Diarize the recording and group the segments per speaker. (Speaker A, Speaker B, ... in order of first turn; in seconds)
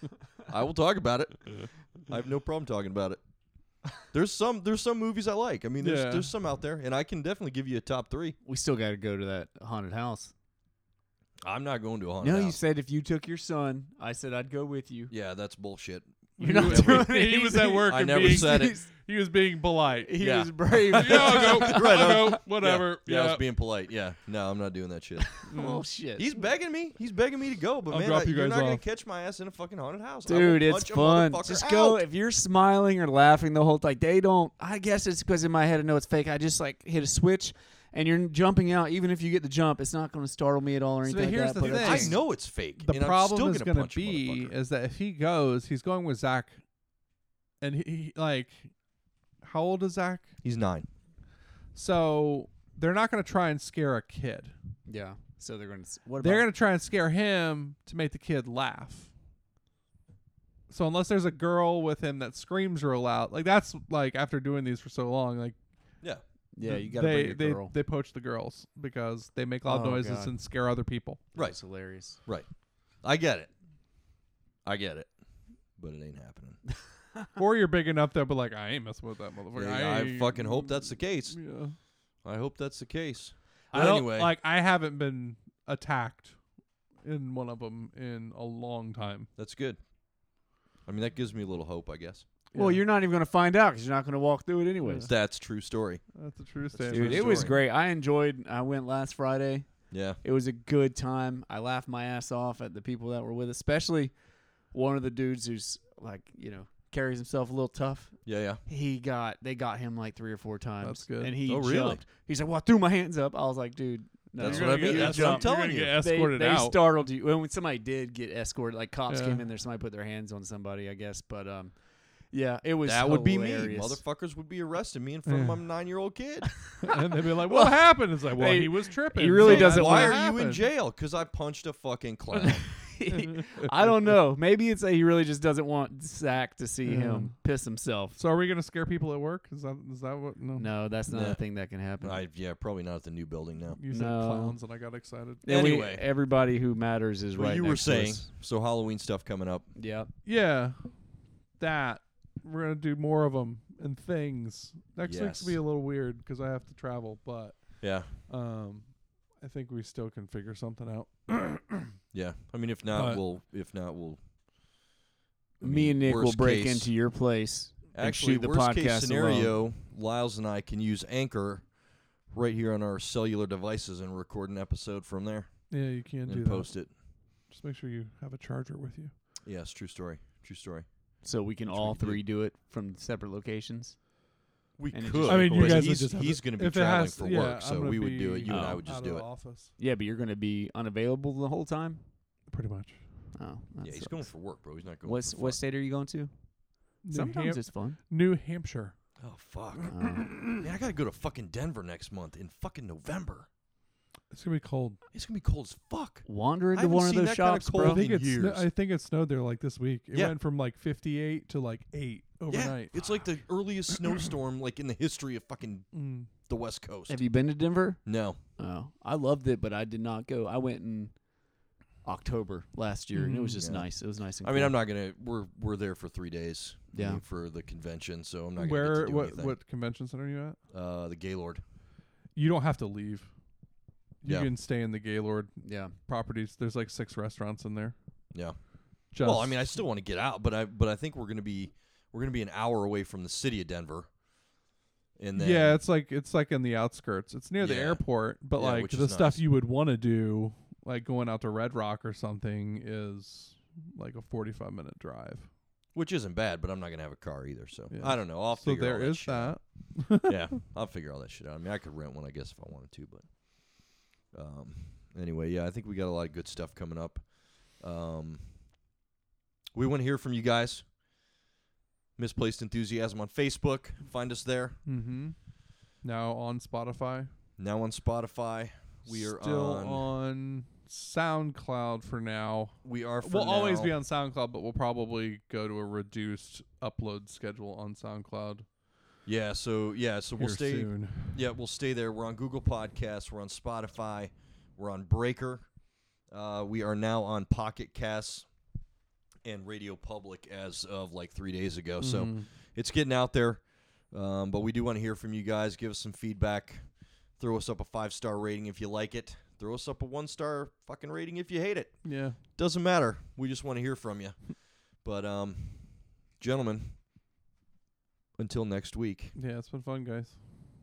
Speaker A: 0.5-3.2, 4.0-8.4, 11.4-12.6, 15.1-17.2, 17.9-18.8, 20.2-25.4, 26.2-32.0, 41.6-44.5, 50.4-50.9, 72.2-73.5, 74.6-75.1, 75.8-76.6, 79.5-81.4, 82.2-84.3, 89.4-89.8, 90.8-92.3, 95.0-96.0, 96.7-97.6, 99.9-100.2, 108.3-108.6, 111.5-112.0, 114.4-116.0, 122.8-126.6, 129.4-132.8, 141.1-141.4, 142.0-143.8, 145.4-146.0, 147.4-149.7, 155.0-155.6, 157.8-158.1, 162.1-164.2, 165.6-166.9, 167.9-171.7, 172.3-176.9, 179.4-180.9, 181.6-182.2, 184.8-189.3, 193.8-195.6, 199.2-203.5, 205.1-208.7, 212.5-217.2, 218.1-218.4, 223.6-223.9, 224.4-229.6, 230.7-231.6, 234.2-234.5, 239.2-244.1, 245.2-245.8, 247.6-249.4, 255.9-268.5, 269.7-270.9, 272.2-274.8, 277.6-280.1, 282.8-283.9, 289.2-295.7, 296.3-298.5, 299.4-317.0, 318.4-319.3
Speaker B: 5.8-6.3, 16.4-20.2, 20.9-23.4, 25.5-25.8, 27.9-28.8, 41.0-46.6, 47.6-48.7, 49.4-50.3, 51.8-54.5, 56.2-59.1, 60.7-65.6, 66.6-71.2, 77.4-81.8, 83.7-86.4, 87.0-89.3, 92.5-92.8, 94.8-95.1, 96.1-97.5, 110.8-111.3, 114.4-116.9, 119.1-119.4, 125.2-125.6, 126.8-130.7, 133.1-133.7, 136.8-137.3, 138.2-140.7, 143.8-145.5, 150.2-162.0, 162.9-163.2, 175.7-176.9, 177.5-179.1, 185.3-189.7, 192.5-193.0, 197.0-198.9, 200.2-200.6, 204.3-205.0, 207.8-213.3, 215.9-216.3, 223.1-223.6, 228.6-230.6, 232.3-233.3, 234.2-237.9, 239.1-239.8, 245.4-255.5, 257.9-260.4, 274.9-275.4, 276.0-277.3, 279.1-288.7, 290.4-291.4, 302.0-302.5, 312.0-312.4, 319.4-320.4
Speaker C: 8.4-10.3, 12.2-15.1, 16.4-18.9, 20.0-22.4, 25.2-26.3, 30.3-42.2, 54.9-56.5, 66.5-67.7, 69.7-70.3, 71.3-72.2, 92.5-95.1, 96.9-104.1, 104.7-124.0, 127.4-130.2, 132.4-138.2, 140.6-142.2, 143.9-144.6, 145.4-148.2, 149.8-150.1, 165.6-169.6, 181.2-184.1, 184.9-186.0, 188.5-188.8, 189.8-192.0, 193.3-194.3, 195.0-196.3, 196.9-198.0, 199.9-200.4, 206.3-208.1, 217.1-218.1, 218.6-221.1, 222.0-224.8, 226.9-227.2, 235.6-235.9